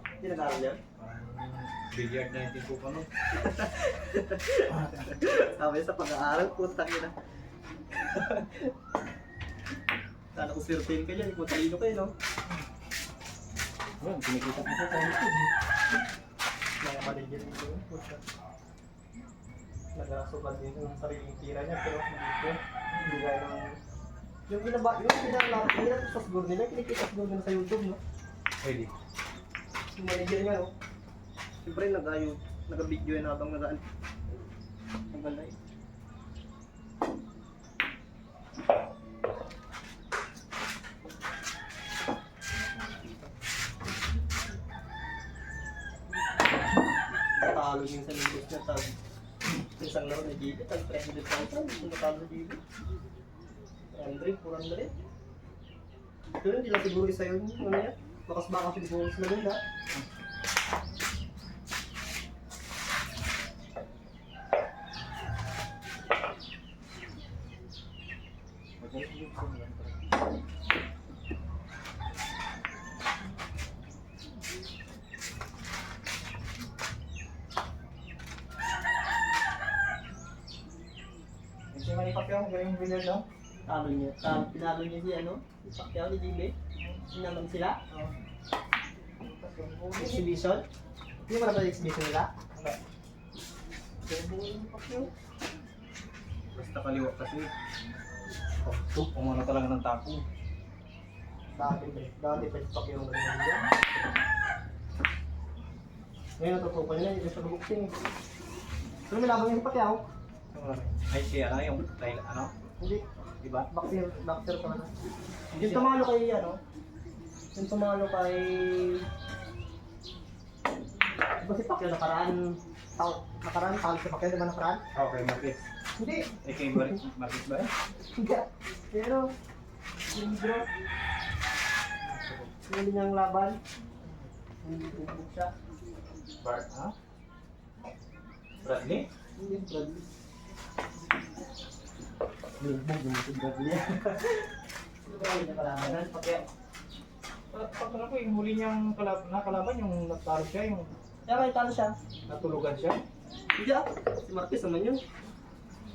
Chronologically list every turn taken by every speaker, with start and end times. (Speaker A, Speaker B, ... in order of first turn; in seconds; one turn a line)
Speaker A: 0.2-0.8
Speaker B: 1.0-3.1
Speaker A: 3.3-7.2
Speaker A: 10.3-12.1
Speaker B: 14.0-15.5
Speaker A: 16.8-18.2
Speaker A: 19.9-23.8
Speaker B: 22.9-23.2
Speaker A: 24.5-28.0
Speaker B: 28.6-28.9
Speaker A: 29.9-30.7
Speaker A: 31.6-33.8
Speaker A: 35.1-35.5
Speaker A: 47.4-49.0
Speaker A: 49.8-52.6
Speaker A: 53.9-54.9
Speaker A: 56.4-59.6
Speaker B: 68.8-70.0
Speaker B: 81.7-83.2
Speaker A: 83.7-86.5
Speaker A: 87.1-87.9
Speaker B: 89.2-90.3
Speaker A: 90.0-90.7
Speaker A: 91.3-92.3
Speaker A: 94.1-95.1
Speaker B: 96.5-97.5
Speaker B: 98.6-100.2
Speaker A: 101.6-103.7
Speaker A: 106.4-107.9
Speaker A: 109.1-110.0
Speaker B: 110.5-112.5
Speaker A: 112.8-113.0
Speaker B: 113.4-113.7
Speaker A: 113.7-114.9
Speaker B: 115.5-115.9
Speaker A: 115.5-116.6
Speaker A: 117.5-119.1
Speaker A: 121.4-124.8
Speaker B: 124.9-125.7
Speaker A: 126.0-126.3
Speaker B: 126.4-127.7
Speaker A: 128.2-129.3
Speaker A: 130.1-130.7
Speaker B: 132.0-132.5
Speaker A: 132.7-133.6
Speaker B: 134.0-134.3
Speaker A: 134.6-135.5
Speaker B: 136.4-136.9
Speaker B: 138.6-139.1
Speaker A: 139.4-140.1
Speaker A: 142.6-144.4
Speaker A: 145.0-146.4
Speaker B: 147.5-151.0
Speaker A: 151.3-152.0
Speaker B: 152.3-153.0
Speaker A: 153.6-155.0